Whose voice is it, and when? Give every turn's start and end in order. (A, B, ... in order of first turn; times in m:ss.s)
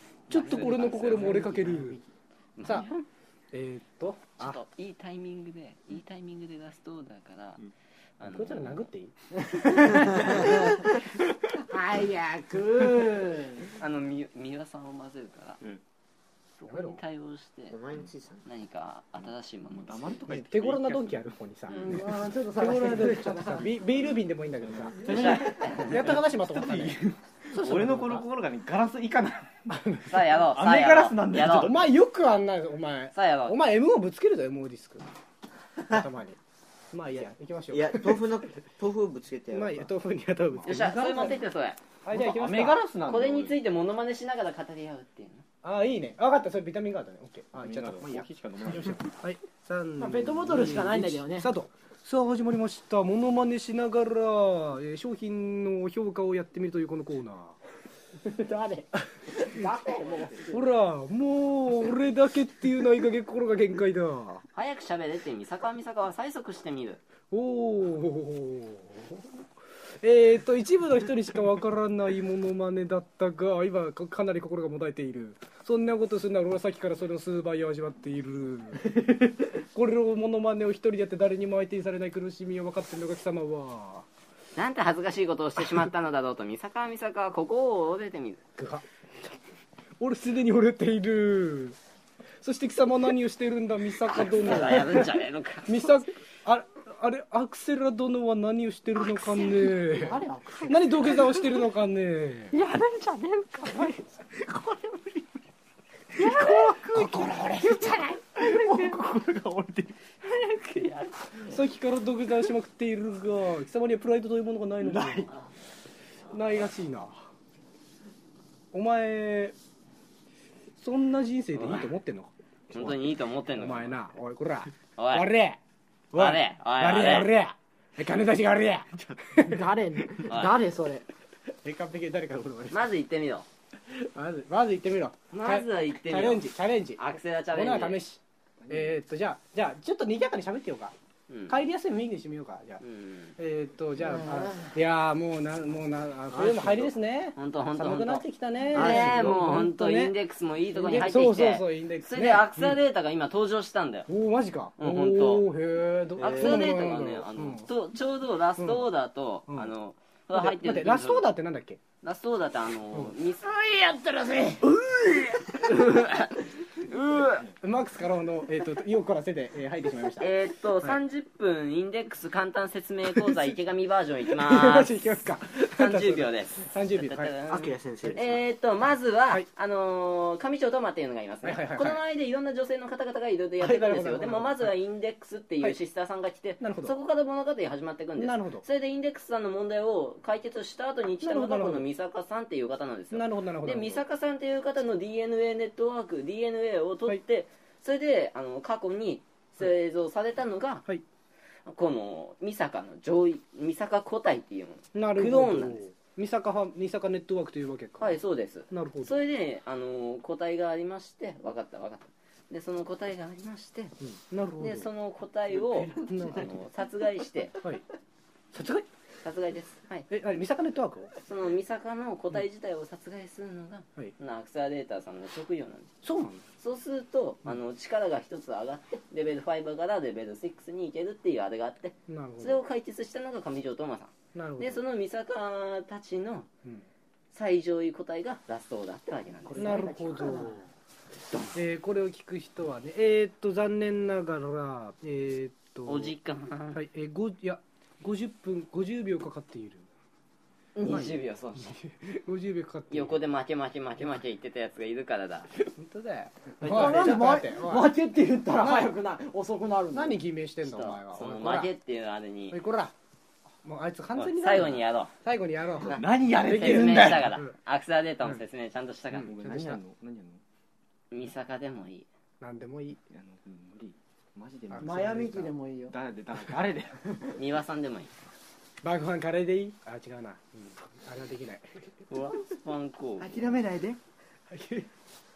0:00.3-0:01.5 A
0:00.3-0:02.0 B
0:02.6-0:03.0 A
0:02.6-0:02.9 B
0:03.5-0:04.6 B
0:04.4-0:07.6 A
0:08.2-0:08.8 A
0:08.2-0:09.1 B
0:09.5-0:10.2 C
0:10.0-0:10.3 A
0:11.7-0:13.7 C
0:13.8-0:15.6 A
0:16.6-0:17.8 A
0:16.7-0:17.0 B
0:17.7-0:18.4 D
0:18.4-0:20.1 A
0:19.6-0:21.8 E
0:20.3-0:21.9 B
0:21.8-0:23.7 C
0:22.6-0:25.0 B
0:23.9-0:29.5 E
0:25.0-0:26.1 A
0:25.8-0:27.1 B
0:27.6-0:28.2 A
0:29.7-0:30.4 B
0:30.1-0:31.8 A
0:30.5-0:31.8 E
0:31.4-0:35.0 B
0:33.1-0:33.6 A
0:35.9-0:36.4 B
0:36.9-0:38.2 B
0:37.7-0:39.9 D
0:39.5-0:41.4 B
0:40.6-0:41.8 A
0:42.0-0:42.8 B
0:42.1-0:43.6 E
0:43.1-0:45.4 A
0:45.6-0:57.6 B
0:47.6-0:49.1 E
0:50.0-0:51.5 C
0:58.2-1:00.6 C
1:00.4-1:04.4 B
1:04.5-1:07.0 A
1:07.3-1:09.4 B
1:10.0-1:19.0 B
1:19.5-1:24.0 B
1:24.6-1:28.4 A
1:28.6-1:28.8 B
1:30.0-1:31.8 B
1:32.4-1:42.6 B
1:34.1-1:36.0 A
1:39.7-1:41.1 C
1:42.5-1:44.0 A
1:43.0-1:43.8 C
1:44.6-1:45.0 A
1:46.2-1:46.6 A
1:46.2-1:49.3 B
1:46.8-1:47.3 E
1:48.8-1:49.9 E
1:50.2-1:51.3 A
1:51.4-1:55.3 B
1:54.8-1:55.5 A
1:56.3-1:57.2 B
1:58.7-1:59.5 B
2:00.8-2:05.6 B
2:01.6-2:01.9 A
2:02.7-2:04.0 A
2:05.0-2:05.3 A
2:06.1-2:09.7 B
2:06.1-2:07.3 A
2:09.4-2:11.0 C
2:10.2-2:10.6 A
2:11.6-2:12.8 B
2:12.7-2:13.4 A
2:13.9-2:17.0 B
2:15.3-2:18.0 A
2:17.5-2:20.9 B
2:21.3-2:21.6 A
2:21.5-2:22.8 B
2:22.8-2:23.3 A
2:23.4-2:30.1 B
2:26.3-2:26.9 D
2:27.4-2:34.1 A
2:28.7-2:29.4 D
2:30.7-2:32.8 B
2:34.1-2:37.7 B
2:34.8-2:35.4 A
2:36.2-2:36.8 D
2:36.2-2:41.3 A
2:38.6-2:38.8 B
2:39.5-2:39.7 B
2:40.3-2:41.8 B
2:42.0-2:47.5 A
2:47.6-2:50.3 B
2:50.2-2:54.9 A
2:54.3-2:57.4 B
2:55.6-3:20.8 A
2:57.5-2:58.4 D
3:01.4-3:02.0 B
3:03.6-3:04.7 B
3:06.6-3:06.9 B
3:08.2-3:08.6 B
3:11.2-3:11.8 B
3:13.1-3:14.0 B
3:21.7-3:25.8 A
3:24.9-3:28.2 B
3:28.0-3:33.9 A
3:28.7-3:29.2 B
3:34.0-3:34.9 B
3:34.6-3:37.6 A
3:35.8-3:36.5 B
3:38.5-3:38.8 B
3:39.2-3:40.1 A
3:40.1-3:41.1 B
3:41.2-3:45.9 A
3:46.0-3:46.4 B
3:46.6-3:56.5 A
3:52.1-3:52.6 B
3:54.3-3:54.8 B
3:57.3-3:59.8 A
3:59.4-4:00.6 C
3:59.6-4:00.7 B
4:01.5-4:06.1 B
4:05.8-4:06.8 A
4:06.7-4:09.9 B
4:10.8-4:11.8 A
4:10.9-4:13.2 B
4:12.9-4:15.5 A
4:15.6-4:17.9 B
4:16.6-4:20.2 C
4:18.6-4:18.9 B
4:19.9-4:21.7 B
4:20.6-4:22.6 A
4:22.5-4:22.9 B
4:23.6-4:27.5 B
4:24.2-4:25.1 A
4:25.8-4:27.3 E
4:26.5-4:29.3 A
4:29.1-4:29.8 B
4:29.2-4:30.4 E
4:31.1-4:32.0 A
4:32.4-4:33.0 B
4:33.1-4:37.1 E
4:34.7-4:35.0 B
4:34.8-4:36.0 C
4:37.4-4:38.1 A
4:38.8-4:41.6 B
4:42.1-4:43.5 A
4:43.2-4:44.0 C
4:44.5-4:44.9 B